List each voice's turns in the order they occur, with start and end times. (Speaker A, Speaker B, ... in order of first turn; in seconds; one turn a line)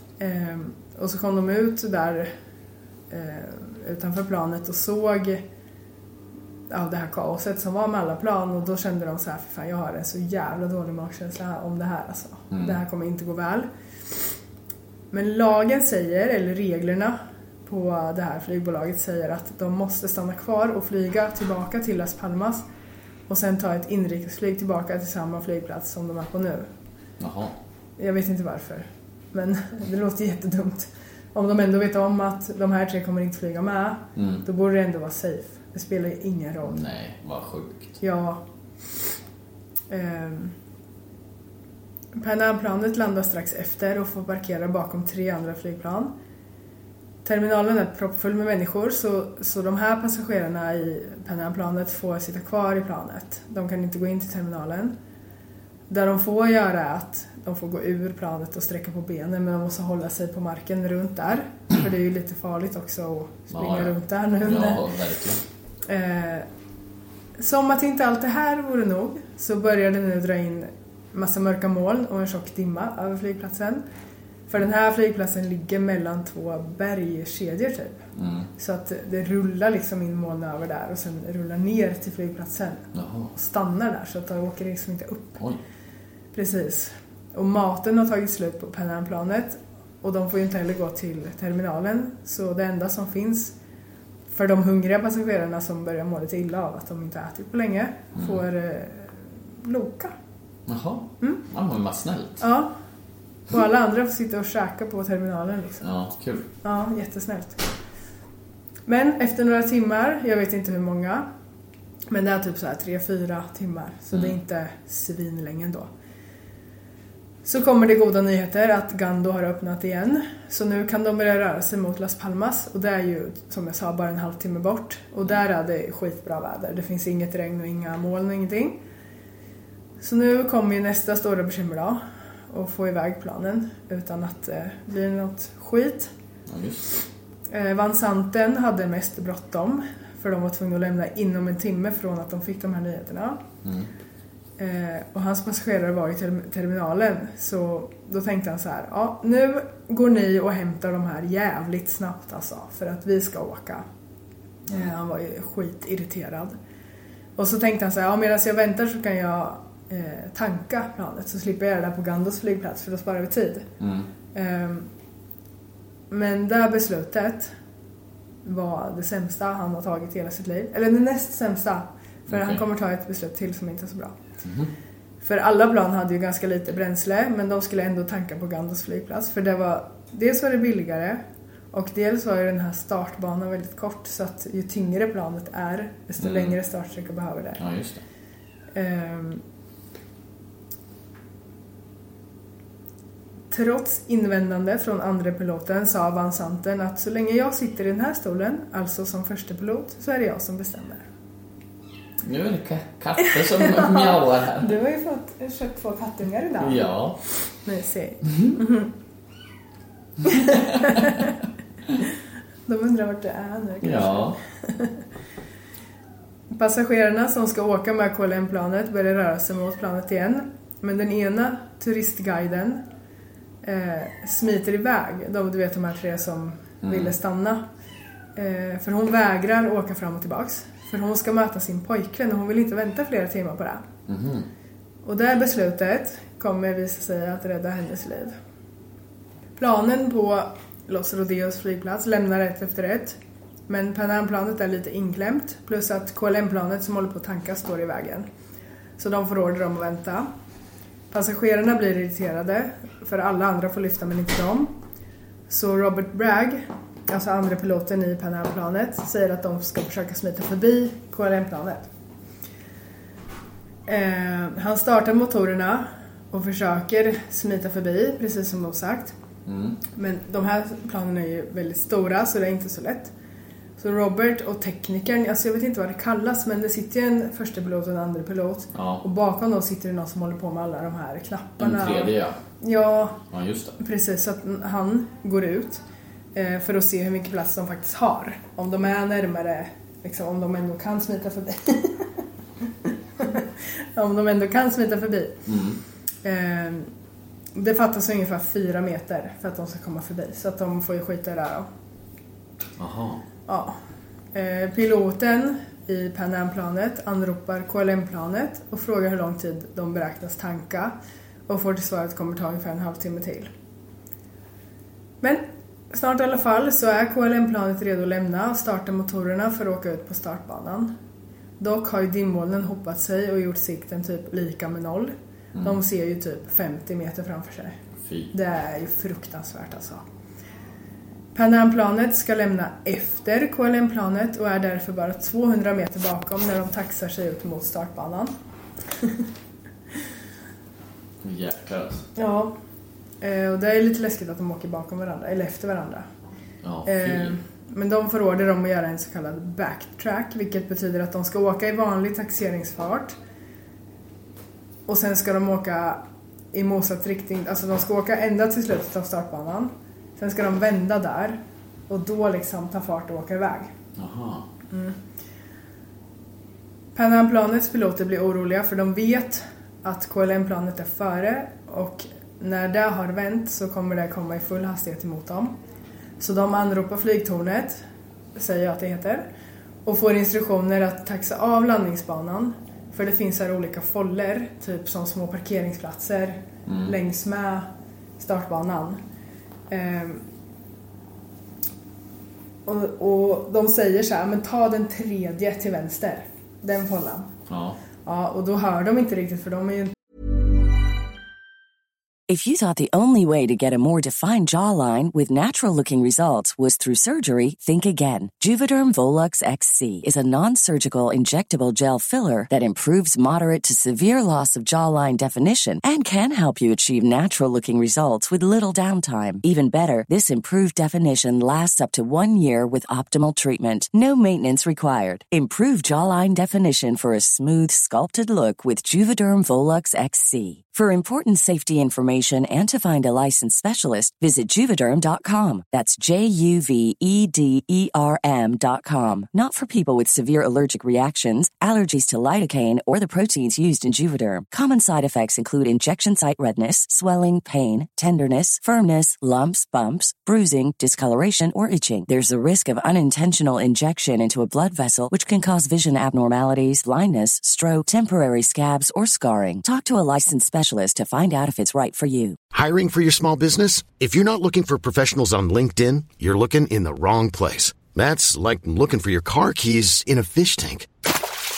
Speaker A: 0.2-2.3
Speaker A: 3.1-5.4
Speaker A: 6.7-13.7
Speaker B: 12.5-12.8
Speaker A: 15.1-22.6
Speaker A: 23.3-26.7
Speaker B: 27.2-27.6
Speaker A: 28.0-36.8
Speaker B: 34.1-34.4
Speaker B: 36.6-38.0
Speaker A: 38.0-38.4
Speaker A: 39.9-40.5
Speaker A: 42.1-46.1
Speaker A: 47.2-54.9
Speaker A: 55.9-64.8
Speaker B: 63.5-65.4
Speaker A: 65.8-66.5
Speaker A: 67.4-73.8
Speaker A: 74.5-78.0
Speaker B: 78.2-78.5
Speaker A: 78.6-85.4
Speaker B: 82.9-83.3
Speaker A: 86.3-93.5
Speaker A: 94.3-100.1
Speaker B: 100.7-102.4
Speaker A: 102.4-102.7
Speaker A: 103.5-105.8
Speaker B: 105.8-106.5
Speaker A: 106.6-107.7
Speaker A: 108.9-111.2
Speaker A: 112.1-115.9
Speaker A: 117.5-128.8
Speaker A: 130.0-132.0
Speaker A: 132.5-136.1
Speaker B: 136.5-136.8
Speaker A: 137.5-143.4
Speaker B: 143.6-143.9
Speaker A: 144.6-153.8
Speaker A: 154.7-156.6
Speaker A: 157.4-163.7
Speaker B: 163.8-164.1
Speaker A: 164.3-164.9
Speaker A: 166.1-167.5
Speaker A: 168.4-174.1
Speaker B: 172.3-172.6
Speaker B: 174.4-174.7
Speaker A: 175.2-181.2
Speaker A: 181.7-187.6
Speaker B: 186.2-186.6
Speaker B: 187.6-188.0
Speaker A: 188.7-189.4
Speaker A: 193.5-201.0
Speaker B: 202.2-204.7
Speaker A: 203.3-206.8
Speaker B: 206.6-207.2
Speaker A: 207.6-208.9
Speaker A: 210.2-211.3
Speaker B: 210.5-210.9
Speaker A: 212.7-215.0
Speaker B: 213.8-214.4
Speaker A: 216.5-222.8
Speaker A: 223.6-227.6
Speaker B: 226.8-227.1
Speaker A: 228.3-233.8
Speaker B: 234.1-234.5
Speaker A: 235.0-238.3
Speaker A: 239.6-243.2
Speaker A: 243.7-248.3
Speaker A: 249.0-250.3
Speaker A: 251.1-254.7
Speaker A: 255.5-261.9
Speaker A: 263.9-269.1
Speaker B: 269.4-269.8
Speaker A: 269.9-273.1
Speaker A: 273.8-283.2
Speaker B: 278.7-279.0
Speaker B: 281.6-282.4
Speaker B: 283.3-283.8
Speaker A: 283.8-285.8
Speaker A: 286.3-292.2
Speaker A: 292.8-295.4
Speaker B: 295.5-295.8
Speaker A: 296.2-296.9
Speaker A: 297.5-301.7
Speaker B: 302.8-303.2
Speaker A: 303.5-303.7
Speaker A: 304.3-310.9
Speaker A: 311.5-313.5
Speaker A: 315.2-320.9
Speaker A: 321.6-327.8
Speaker B: 328.1-328.3
Speaker A: 328.3-330.0
Speaker A: 331.3-338.3
Speaker B: 341.2-342.1
Speaker A: 342.1-342.5
Speaker A: 343.2-346.1
Speaker B: 346.6-347.4
Speaker A: 346.9-353.1
Speaker A: 354.9-356.0
Speaker A: 356.5-363.7
Speaker B: 363.9-364.4
Speaker A: 364.7-364.9
Speaker A: 366.9-375.5
Speaker A: 376.2-377.8
Speaker A: 378.4-379.2
Speaker A: 379.8-387.7
Speaker B: 386.7-386.9
Speaker A: 388.2-389.0
Speaker A: 389.7-390.2
Speaker A: 392.6-397.3
Speaker B: 397.5-397.8
Speaker A: 398.0-399.9
Speaker C: 402.3-462.4
Speaker D: 462.5-470.9